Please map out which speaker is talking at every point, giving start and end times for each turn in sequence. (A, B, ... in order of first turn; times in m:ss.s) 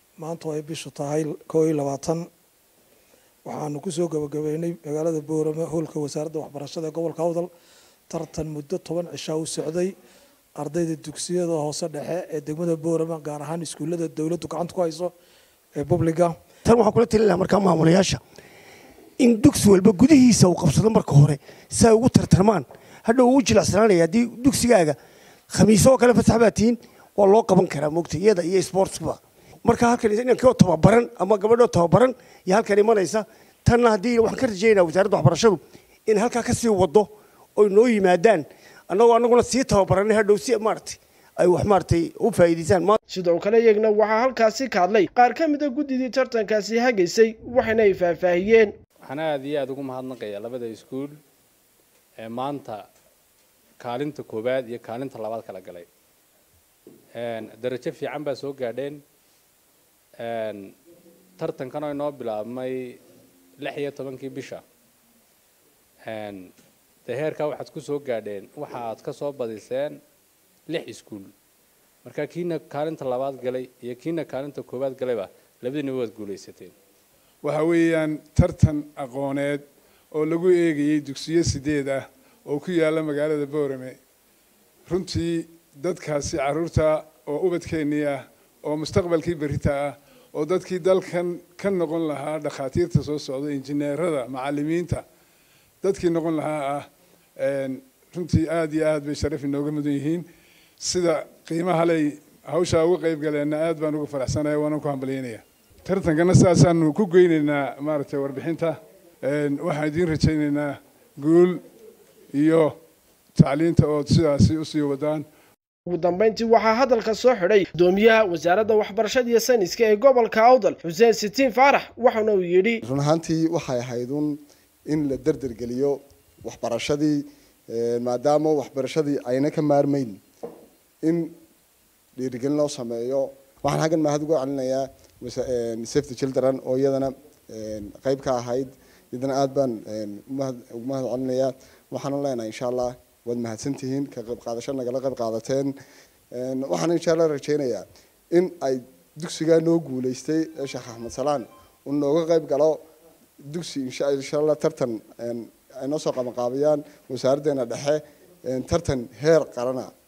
0:00.2-0:02.3 A
0:03.4-0:07.5 A
0:08.1-0:10.0 A
0:10.6-0:15.1 A
0:15.8-0:16.4 A
0:16.6-0:18.2 B
0:19.2-0:25.0 B
0:25.5-0:43.0 B
0:43.1-0:48.7 C
0:49.0-0:51.2 D
0:52.2-0:52.8 D
0:53.8-0:55.9 D
0:57.2-0:59.0 D
1:00.2-1:00.8 D
1:01.4-1:03.0 D
1:03.6-1:04.6 D
1:06.1-1:06.5 D
1:07.1-1:10.0 D
1:10.7-1:11.3 D
1:12.0-1:16.7 D
1:17.4-1:24.0 E
1:24.9-1:35.0 E
1:35.8-1:40.3 E
1:40.8-1:51.6 E
1:52.3-1:52.8 E
1:53.4-1:55.3 E
1:55.9-2:02.8 C
2:02.8-2:04.4 F
2:04.9-2:10.2 F
2:11.0-2:11.4 F
2:12.2-2:25.7 F
2:26.3-2:32.8 F
2:33.5-2:39.9 F